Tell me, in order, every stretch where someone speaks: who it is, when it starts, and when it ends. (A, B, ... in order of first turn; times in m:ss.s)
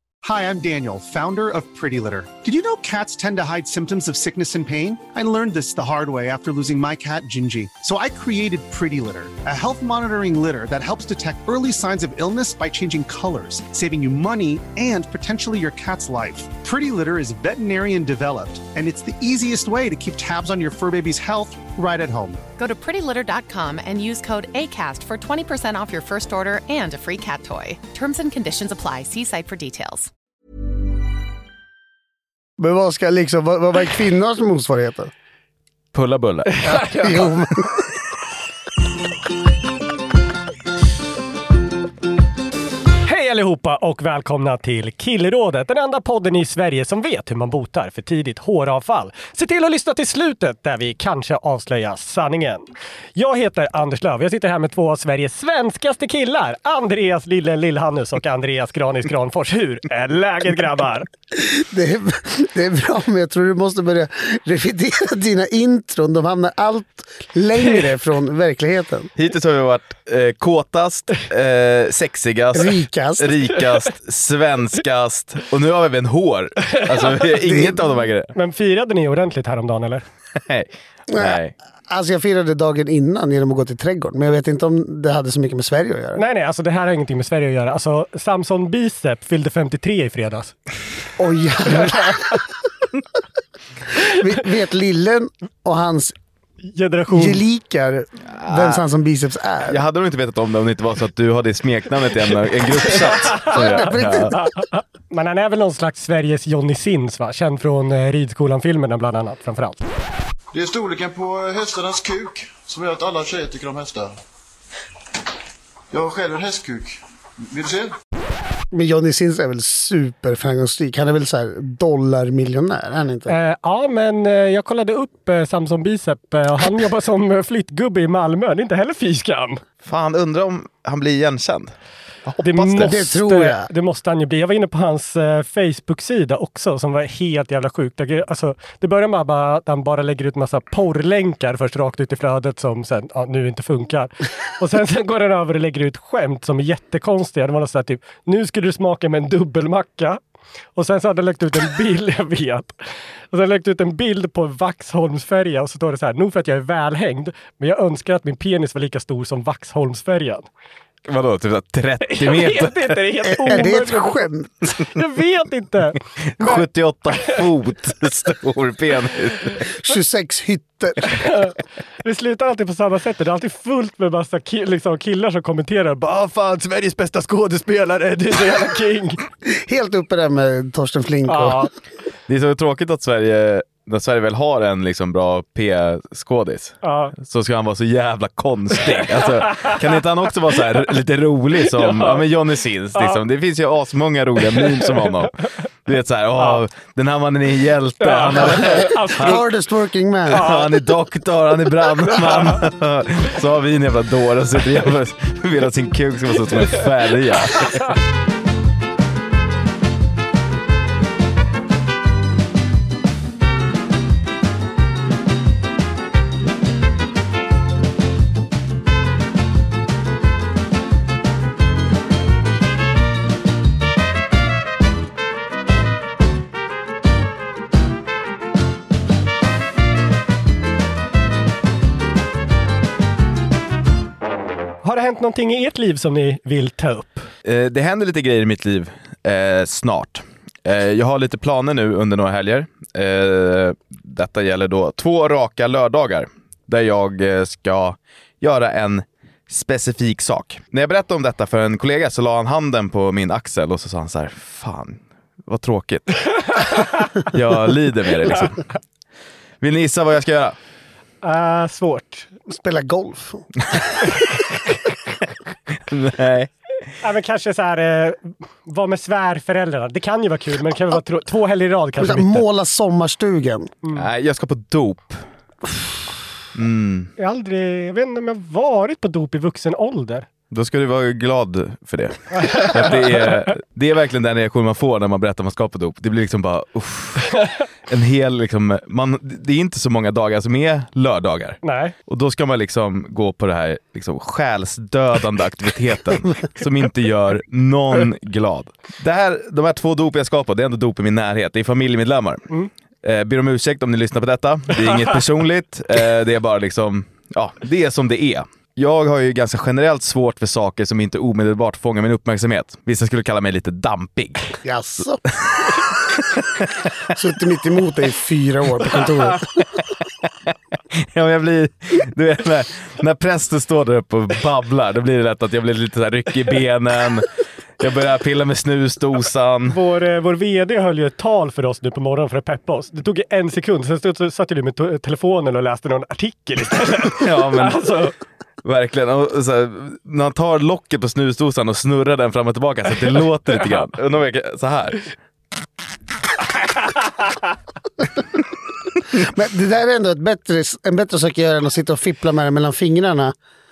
0:00.2-0:22.4 A
0:22.6-0:30.1 B
0:32.6-0:35.1 C
0:35.9-0:36.9 D
0:36.7-0:37.8 C
0:36.7-0:37.1 E
0:43.0-1:01.1 E
1:01.4-1:09.1 C
1:09.2-1:18.3 D
1:12.5-1:13.4 C
1:17.5-1:17.8 C
1:18.4-1:20.0 E
1:20.4-1:21.5 D
1:21.1-1:26.2 C
1:26.2-1:30.5 E
1:31.2-1:32.4 C
1:34.1-1:36.2 C
1:36.6-1:37.4 E
1:37.1-1:39.8 C
1:38.4-1:38.8 D
1:39.7-1:44.3 D
1:43.1-1:49.8 E
1:43.5-1:44.4 C
1:50.5-1:54.2 F
1:55.9-1:57.9 F
1:58.7-2:03.4 C
2:03.3-2:09.6 E
2:09.8-2:11.7 D
2:12.2-2:13.0 D
2:12.4-2:30.2 E
2:12.8-2:13.7 C
2:30.8-2:32.8 E
2:33.3-2:40.5 E
2:41.1-2:43.3 D
2:42.0-2:44.3 E
2:43.3-2:44.7 C
2:44.8-2:46.6 E
2:46.4-2:49.6 D
2:49.7-2:51.0 C
2:51.1-2:59.2 E
2:59.5-3:01.7 C
3:01.3-3:01.7 E
3:02.3-3:19.4 D
3:06.8-3:07.1 E
3:09.0-3:09.8 E
3:11.7-3:12.3 E
3:12.9-3:13.2 E
3:14.4-3:15.1 E
3:18.0-3:19.4 E
3:19.2-3:20.5 C
3:20.3-3:27.8 D
3:20.4-3:20.6 E
3:22.0-3:22.6 E
3:54.8-3:57.3 E
3:57.4-4:16.7 D
4:17.3-4:18.6 D
4:19.6-4:20.6 D
4:21.2-4:22.3 E
4:22.5-4:23.5 C
4:25.9-4:26.5 D
4:27.0-4:32.4 E
4:32.0-4:33.7 C
4:33.9-4:35.2 D
4:36.6-4:37.1 D
4:37.2-4:40.3 E
4:40.5-5:02.4 D
4:42.4-4:43.0 E
4:51.6-4:51.9 E
5:03.0-5:14.5 D
5:14.6-5:15.2 C
5:15.4-5:15.7 D
5:17.1-5:19.5 C
5:21.0-5:29.8 D
5:29.7-5:38.1 E
5:37.1-5:37.9 D
5:38.6-5:45.1 D
5:49.2-5:53.4 C